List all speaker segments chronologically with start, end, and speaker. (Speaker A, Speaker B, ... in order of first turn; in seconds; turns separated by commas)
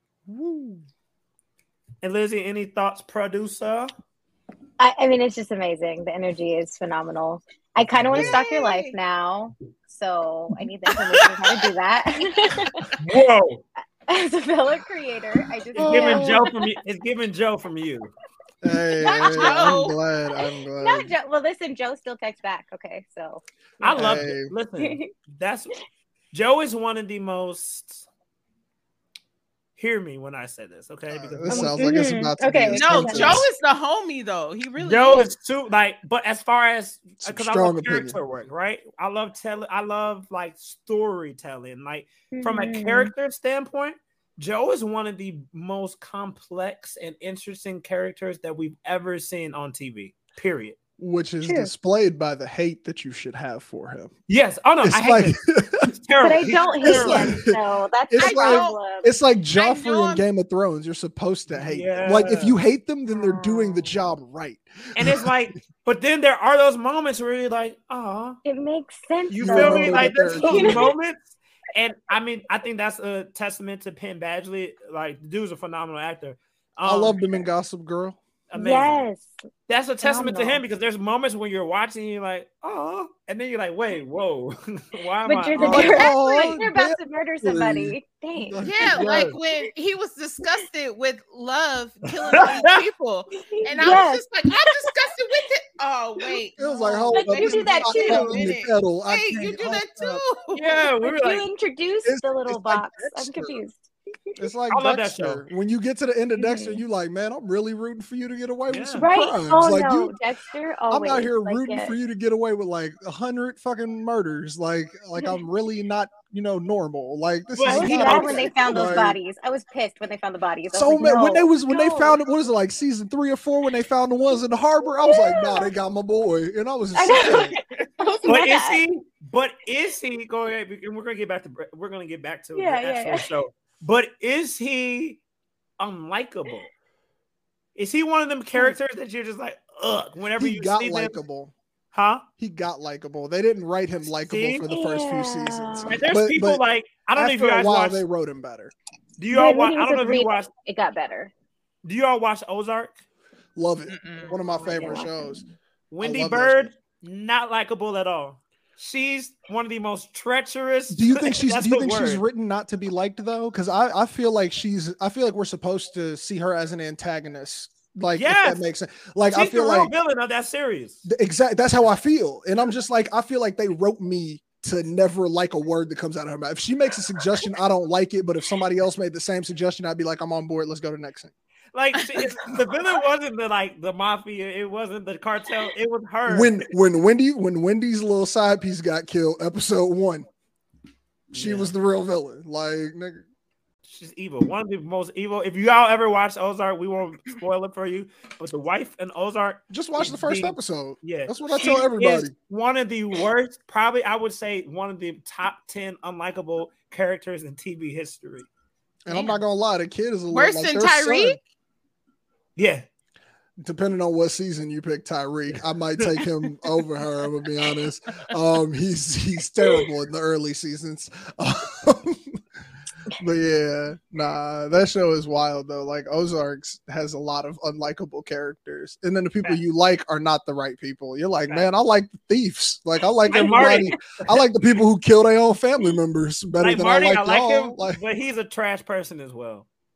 Speaker A: 0.3-0.8, Speaker B: 2.0-3.9, Speaker C: 4.8-12.9, Speaker D: 8.1-8.9, Speaker B: 13.0-13.6, Speaker C: 14.1-16.7, Speaker B: 15.7-18.1, Speaker A: 15.8-16.4, Speaker A: 18.6-21.1, Speaker D: 19.0-20.0, Speaker C: 19.1-19.8, Speaker C: 20.8-24.2, Speaker B: 23.8-25.7, Speaker A: 23.9-24.5, Speaker C: 24.8-25.1, Speaker B: 26.3-28.1, Speaker B: 29.8-31.9, Speaker A: 31.1-33.4, Speaker C: 31.5-33.4, Speaker D: 32.7-35.3, Speaker B: 34.8-50.8, Speaker A: 37.2-38.2, Speaker C: 42.3-43.1, Speaker A: 51.0-54.1, Speaker C: 51.4-51.7, Speaker B: 54.3-57.4, Speaker A: 54.8-55.8, Speaker C: 56.2-59.1, Speaker A: 56.8-65.3, Speaker D: 58.2-58.8, Speaker D: 59.6-60.2, Speaker B: 61.5-62.6, Speaker C: 63.1-64.1, Speaker B: 65.0-68.4, Speaker C: 68.4-70.9, Speaker B: 69.3-77.5, Speaker A: 69.4-70.9, Speaker A: 76.8-78.2, Speaker B: 78.5-79.1, Speaker C: 78.5-79.3, Speaker B: 79.7-86.0, Speaker C: 80.0-80.6, Speaker C: 85.2-89.0, Speaker A: 85.6-89.3, Speaker D: 88.6-100.9, Speaker B: 88.8-89.4, Speaker B: 92.1-92.8, Speaker C: 93.3-94.8, Speaker A: 96.6-100.2, Speaker C: 97.1-98.5, Speaker B: 100.5-101.5, Speaker C: 101.0-104.3, Speaker A: 102.0-103.6, Speaker A: 104.4-110.1, Speaker B: 104.7-105.4, Speaker C: 106.3-106.8, Speaker B: 108.7-109.1, Speaker C: 109.0-111.9, Speaker A: 110.9-119.2, Speaker B: 117.5-118.5, Speaker C: 117.6-122.2, Speaker A: 120.7-127.5, Speaker C: 125.0-125.7, Speaker C: 126.9-128.8, Speaker D: 127.3-127.6, Speaker B: 128.2-135.2, Speaker C: 132.5-133.2, Speaker B: 135.8-136.7, Speaker B: 137.8-141.2, Speaker A: 140.4-141.5, Speaker B: 141.9-142.2, Speaker A: 142.4-146.6, Speaker B: 144.2-144.7, Speaker C: 144.6-146.0, Speaker B: 145.9-148.0, Speaker A: 147.1-148.7, Speaker B: 149.2-150.5, Speaker C: 149.3-151.3, Speaker B: 151.8-153.0, Speaker A: 153.6-155.4, Speaker D: 153.9-154.7, Speaker C: 154.6-155.4, Speaker B: 155.9-162.2, Speaker A: 156.0-156.7, Speaker A: 160.9-169.9, Speaker B: 168.1-168.6, Speaker B: 169.3-171.0, Speaker A: 171.0-181.3, Speaker B: 181.7-186.7, Speaker D: 182.0-182.3, Speaker A: 186.2-190.2, Speaker A: 191.3-193.2, Speaker B: 191.3-191.7, Speaker B: 193.8-208.5, Speaker A: 199.7-202.3, Speaker A: 209.1-211.4, Speaker D: 209.1-209.4, Speaker D: 210.3-211.4, Speaker B: 212.6-212.8, Speaker A: 213.6-222.3, Speaker A: 223.2-238.0, Speaker C: 233.3-233.8, Speaker B: 233.3-233.9, Speaker B: 236.6-239.7